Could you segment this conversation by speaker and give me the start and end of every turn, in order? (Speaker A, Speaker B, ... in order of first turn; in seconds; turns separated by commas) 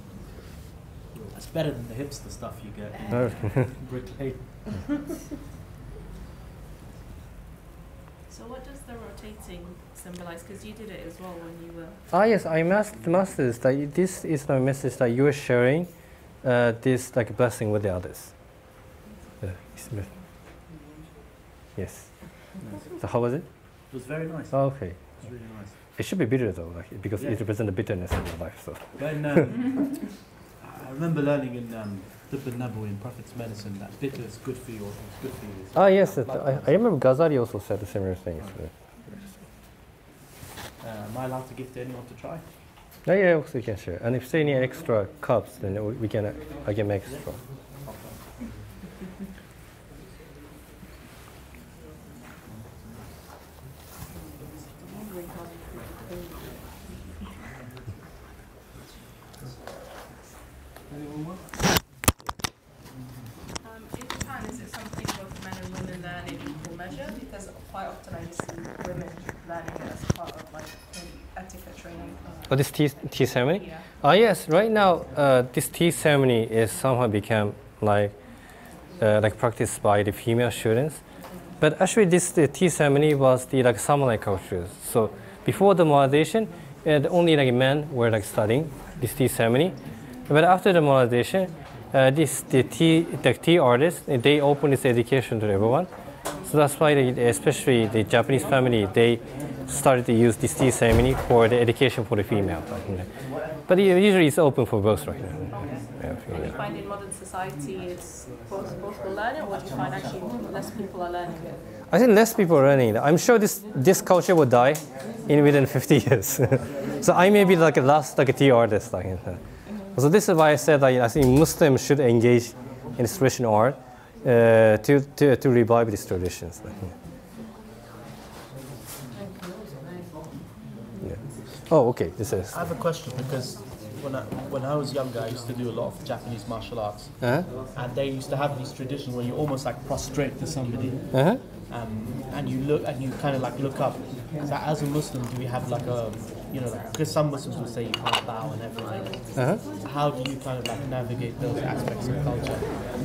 Speaker A: 0.9-4.7, Speaker B: 2.9-3.6, Speaker C: 3.1-3.7, Speaker B: 8.3-12.1, Speaker C: 12.1-18.7, Speaker A: 12.9-13.2, Speaker C: 19.4-20.1, Speaker C: 21.7-22.4, Speaker A: 22.6-22.9, Speaker C: 23.0-23.9, Speaker A: 23.9-25.8, Speaker C: 24.5-29.5, Speaker A: 27.2-27.4, Speaker A: 28.9-36.8, Speaker C: 35.7-38.7, Speaker A: 38.4-39.4, Speaker A: 40.8-42.5, Speaker C: 43.0-47.4, Speaker A: 47.0-48.3, Speaker B: 54.7-56.8, Speaker B: 63.6-73.8, Speaker C: 72.5-78.2, Speaker C: 79.0-81.0, Speaker C: 81.6-89.8, Speaker C: 90.3-95.9, Speaker C: 96.4-106.5, Speaker B: 105.5-111.6, Speaker C: 111.9-119.4, Speaker C: 119.9-126.9, Speaker C: 131.0-132.7, Speaker A: 132.5-152.9, Speaker C: 137.2-137.5, Speaker C: 141.1-141.4, Speaker C: 149.3-149.6